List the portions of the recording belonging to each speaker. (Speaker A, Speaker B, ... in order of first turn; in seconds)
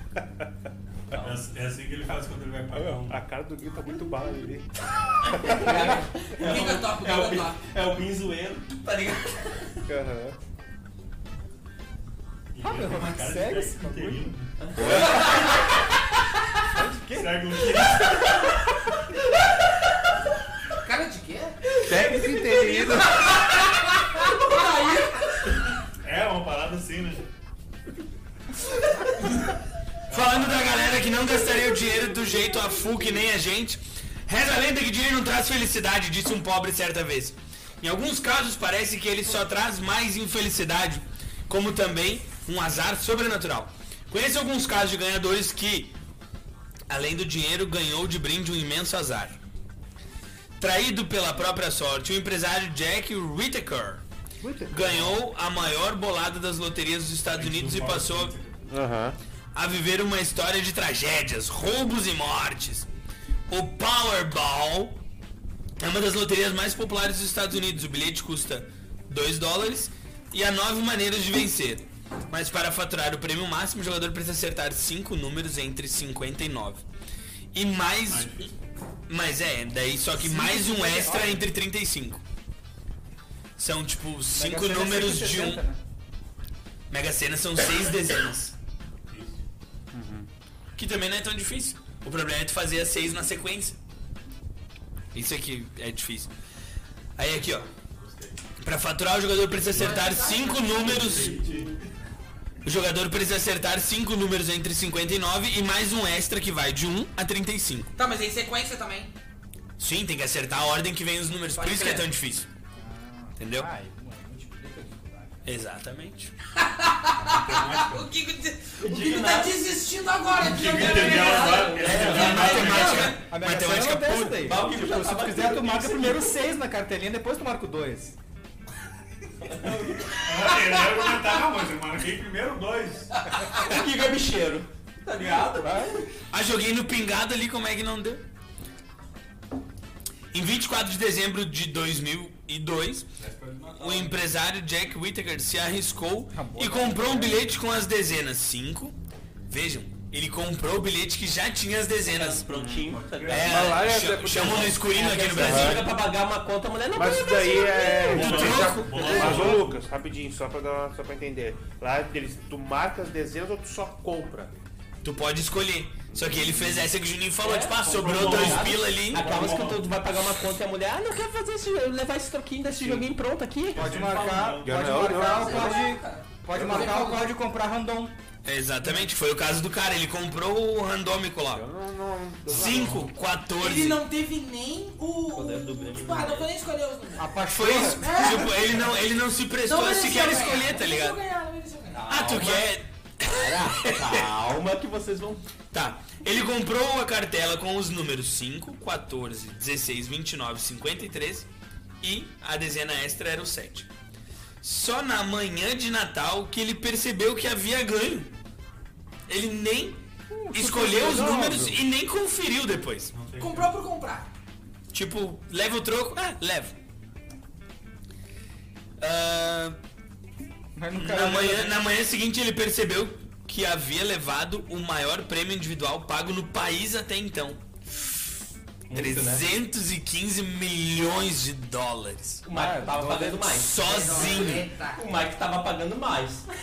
Speaker A: 1.1-3.2, 6.4-8.7, 12.5-15.0, 17.1-18.5, 21.9-22.9, 26.0-27.2, 30.1-30.9, 57.2-58.6, 78.1-78.6, 89.1-89.4, 98.0-98.4, 100.8-101.8, 117.2-118.1, 120.4-123.1, 129.6-133.1, 143.2-144.3, 152.9-153.7, 158.1-159.8, 167.8-169.9, 173.7-175.1, 182.5-183.1, 213.1-213.7
Speaker B: 1.1-1.4, 5.2-7.4, 8.7-9.7, 14.6-15.5, 118.8-119.5, 120.8-122.8, 124.4-126.3, 129.4-130.1, 133.5-136.1, 152.0-153.8, 154.4-158.5, 167.4-173.9, 185.3-186.5, 191.9-195.4, 228.9-229.4, 232.4-236.4
Speaker C: 2.7-4.7, 5.3-6.0, 9.8-10.3, 14.8-15.4, 21.8-23.3, 58.7-59.2, 89.9-90.3, 152.5-152.8, 153.5-154.7, 155.4-155.9, 156.9-164.6, 166.1-166.8, 174.6-175.7, 176.6-176.9, 181.5-183.1
Speaker D: 6.3-7.7, 20.8-21.6, 22.4-25.5, 99.7-101.3, 108.0-109.1, 111.6-112.0, 116.5-123.2, 175.0-177.3, 183.6-187.4, 188.0-188.6, 189.6-192.1, 213.4-214.3, 233.8-235.0
Speaker E: 12.6-14.3, 16.7-17.7, 54.4-55.1, 80.2-81.5, 84.3-85.8, 112.7-115.3, 122.3-128.1, 135.6-135.9, 146.3-147.4, 158.0-159.7, 173.7-178.1, 187.2-188.5, 210.3-211.8, 220.8-221.8, 232.5-233.4
Speaker F: 30.1-45.9, 46.9-49.3, 50.6-54.0, 54.7-58.3, 59.5-62.9, 63.5-65.0, 65.8-76.8, 77.5-78.4, 79.1-82.2, 83.6-85.6, 86.9-88.5, 90.8-93.8, 95.1-96.3, 97.2-97.7, 98.6-101.3, 102.6-107.9, 109.8-112.5, 113.4-113.7, 115.4-116.3, 121.8-124.6, 136.3-138.2, 140.3-143.1, 143.8-148.9, 149.5-152.5, 153.2-155.9, 158.2-158.8, 165.0-169.3, 178.4-181.7, 182.5-184.0, 187.5-191.2, 192.1-194.2, 195.7-201.5, 202.0-203.9, 204.6-208.3, 209.3-210.0, 210.5-213.1, 214.9-216.7, 219.0-219.8, 220.9-232.4, 233.4-234.7